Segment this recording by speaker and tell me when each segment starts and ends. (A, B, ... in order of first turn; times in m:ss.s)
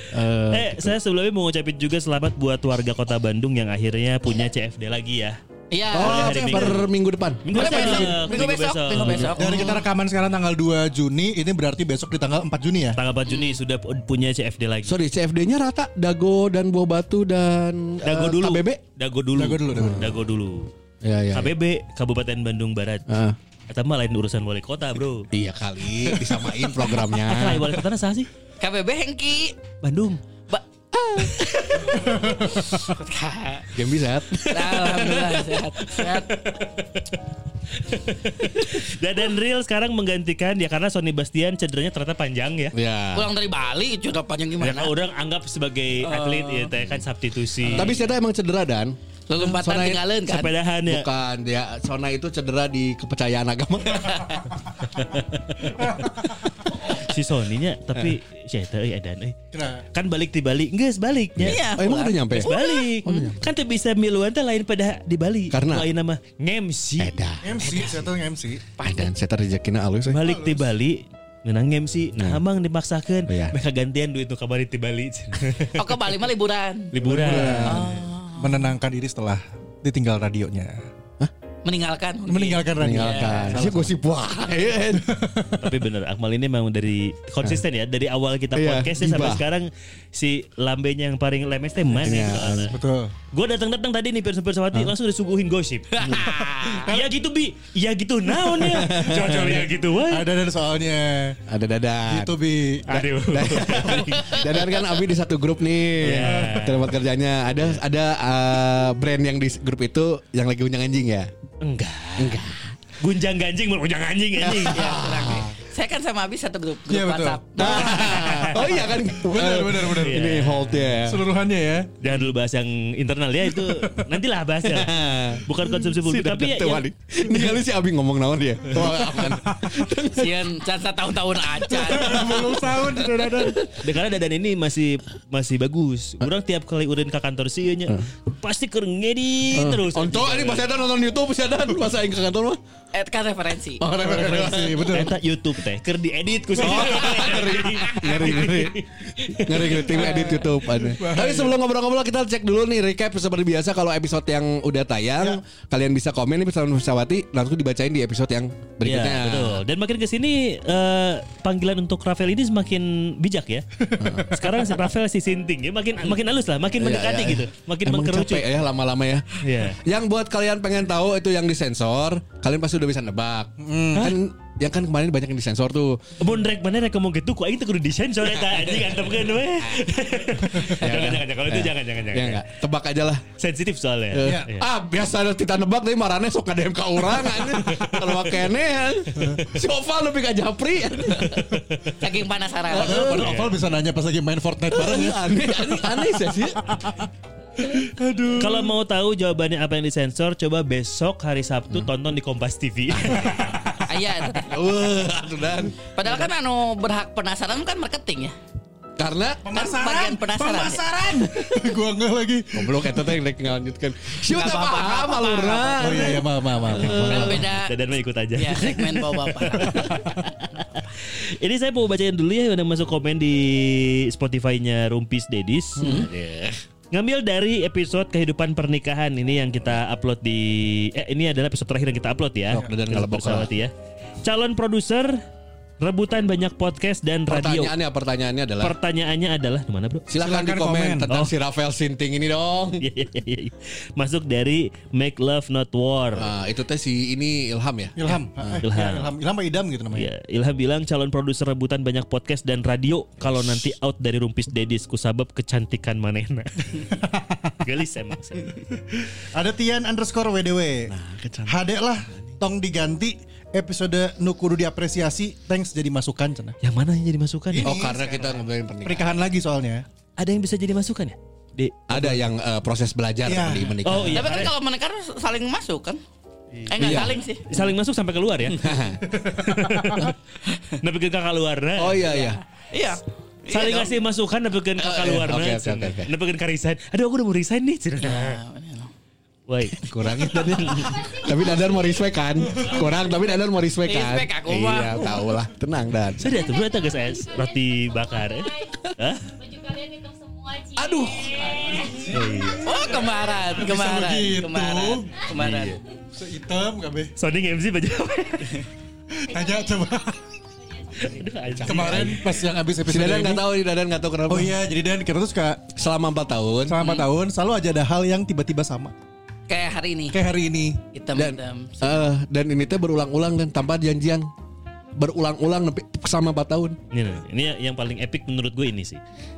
0:00.1-0:01.0 A
0:00.5-0:05.4 B
0:05.7-0:06.8 C
0:05.9-0:08.4 A
0:06.0-0:06.9 B
0:07.4-0:09.4 B
0:07.5-0:09.8 C
0:09.0-0:09.4 A
0:09.4-0:13.0 D
0:13.0-0:15.0 B
0:13.3-0:13.6 C
0:14.8-0:18.8 A
0:18.0-0:20.7 B
0:19.4-0:20.0 D
0:19.7-0:20.2 A
0:21.0-0:21.5 A
0:21.3-0:23.1 B
0:23.1-0:23.4 A
0:23.7-0:25.3 B
0:25.3-0:27.8 A
0:26.9-0:28.3 B
0:28.6-0:29.6 C
0:29.8-0:30.2 B
0:30.9-0:32.5 A
0:31.7-0:32.1 B
0:32.4-0:33.7 C
0:33.7-0:35.4 A
0:34.5-0:36.6 C
0:36.0-0:42.8 B
0:42.7-0:43.3 A
0:43.1-0:44.9 C
0:44.6-0:48.0 B
0:46.0-0:46.7 C
0:46.8-0:47.0 A
0:47.6-0:47.9 C
0:47.7-0:50.0 A
0:49.3-0:50.5 C
0:50.3-0:51.1 B
0:50.9-0:54.5 A
0:55.1-0:55.7 B
0:55.8-0:56.1 D
0:56.7-0:59.4 B
0:59.5-0:59.8 D
0:59.9-1:01.6 B
1:01.4-1:03.5 A
1:01.4-1:03.3 C
1:02.4-1:07.2 B
1:05.5-1:05.9 A
1:07.0-1:07.8 A
1:07.4-1:08.6 D
1:07.6-1:07.9 C
1:08.8-1:10.2 A
1:10.1-1:16.1 B
1:10.2-1:10.7 D
1:12.2-1:12.4 A
1:13.3-1:13.6 A
1:15.7-1:16.9 C
1:16.9-1:17.8 B
1:17.0-1:17.8 D
1:17.1-1:17.8 A
1:17.6-1:18.7 C
1:18.4-1:20.8 D
1:21.6-1:23.6 C
1:22.3-1:23.9 D
1:22.8-1:25.2 A
1:25.1-1:25.6 D
1:25.6-1:32.8 B
1:28.5-1:29.4 A
1:32.0-1:32.8 A
1:32.7-1:33.1 D
1:33.3-1:36.0 B
1:35.9-1:36.9 C
1:36.9-1:40.3 B
1:38.6-1:39.6 A
1:38.9-1:41.4 D
1:41.5-1:42.4 A
1:42.1-1:42.9 D
1:42.9-1:51.3 A
1:42.9-1:44.7 B
1:46.0-1:46.9 B
1:46.1-1:46.7 D
1:51.6-1:54.9 B
1:52.2-1:52.7 A
1:54.4-1:55.5 A
1:54.7-1:58.5 C
1:56.9-2:00.2 D
1:57.6-2:01.2 A
2:00.0-2:01.0 B
2:01.0-2:01.9 D
2:02.0-2:06.8 B
2:03.6-2:04.0 D
2:04.7-2:10.5 A
2:09.1-2:09.4 D
2:10.1-2:12.3 C
2:11.7-2:13.7 D
2:13.7-2:20.7 B
2:19.5-2:22.6 A
2:22.9-2:23.8 C
2:23.8-2:25.0 A
2:23.9-2:25.2 D
2:24.9-2:30.4 B
2:26.6-2:39.6 A
2:29.8-2:31.5 D
2:38.8-2:48.5 B
2:44.0-2:44.4 A
2:46.8-2:56.0 A
2:49.4-2:49.8 B
2:53.6-2:54.1 D
2:56.2-3:02.5 B
3:00.6-3:03.3 A
3:03.4-3:04.7 B
3:04.1-3:11.6 A
3:04.2-3:04.5 D
3:12.0-3:13.1 C
3:12.7-3:13.3 A
3:12.7-3:16.3 D
3:13.1-3:13.5 B
3:14.7-3:16.6 A
3:17.6-3:18.8 D
3:18.4-3:23.6 B
3:23.0-3:23.6 A
3:23.3-3:23.8 D
3:23.8-3:24.6 C
3:24.4-3:25.8 A
3:26.0-3:28.3 C
3:29.0-3:29.4 A
3:29.4-3:33.1 D
3:29.5-3:30.8 C
3:32.5-3:37.6 A
3:34.2-3:36.2 C
3:35.8-3:37.3 D
3:36.8-3:37.8 C
3:37.0-3:45.9 B
3:38.4-3:39.8 C
3:45.8-3:46.6 A
3:45.8-3:46.1 C
3:46.9-3:55.2 B
3:52.5-3:53.5 A
3:55.8-3:57.7 B
3:57.3-3:58.8 A
3:58.6-4:00.1 B
4:00.1-4:02.8 A
4:00.2-4:01.1 D
4:02.8-4:06.3 B
4:06.2-4:08.6 A
4:08.0-4:10.1 D
4:08.6-4:09.1 B
4:09.9-4:17.0 B
4:17.1-4:17.4 D
4:17.6-4:18.6 B
4:19.3-4:20.9 D
4:20.9-4:21.6 A
4:21.5-4:26.6 D
4:26.6-4:27.8 B
4:27.5-4:29.8 D
4:27.6-4:29.1 A
4:30.2-4:32.2 B
4:31.9-4:34.5 A
4:33.2-4:33.8 D
4:33.8-4:34.5 B
4:34.1-4:36.0 C
4:36.7-4:37.5 C
4:36.7-4:37.2 A
4:36.8-4:38.7 B
4:38.5-4:39.0 A
4:39.2-4:40.1 D
4:39.3-4:40.2 B
4:40.7-4:42.0 B
4:41.8-4:42.4 A
4:42.0-4:43.9 C
4:43.5-4:48.4 B
4:44.8-4:46.1 A
4:48.0-4:48.9 C
4:49.5-4:50.9 B
4:49.8-4:56.4 A
4:50.8-4:52.1 E
4:53.8-4:55.3 C
4:56.2-4:59.3 B
4:56.4-5:02.2 E
5:00.8-5:01.5 A
5:01.5-5:02.8 B
5:01.8-5:02.5 D
5:02.6-5:05.8 C
5:03.1-5:05.1 D
5:05.3-5:05.7 B
5:06.1-5:07.1 D
5:07.2-5:08.7 B
5:09.2-5:10.3 D
5:09.3-5:10.0 E
5:10.6-5:11.3 E
5:11.0-5:12.2 B
5:11.6-5:12.2 A
5:11.6-5:13.5 D
5:12.8-5:14.6 A
5:14.3-5:15.7 D
5:15.7-5:16.8 A
5:16.7-5:18.9 D
5:16.8-5:17.0 C
5:19.5-5:20.2 C
5:20.1-5:20.8 D
5:20.9-5:22.1 C
5:21.2-5:24.3 A
5:25.0-5:26.8 A
5:26.9-5:29.0 B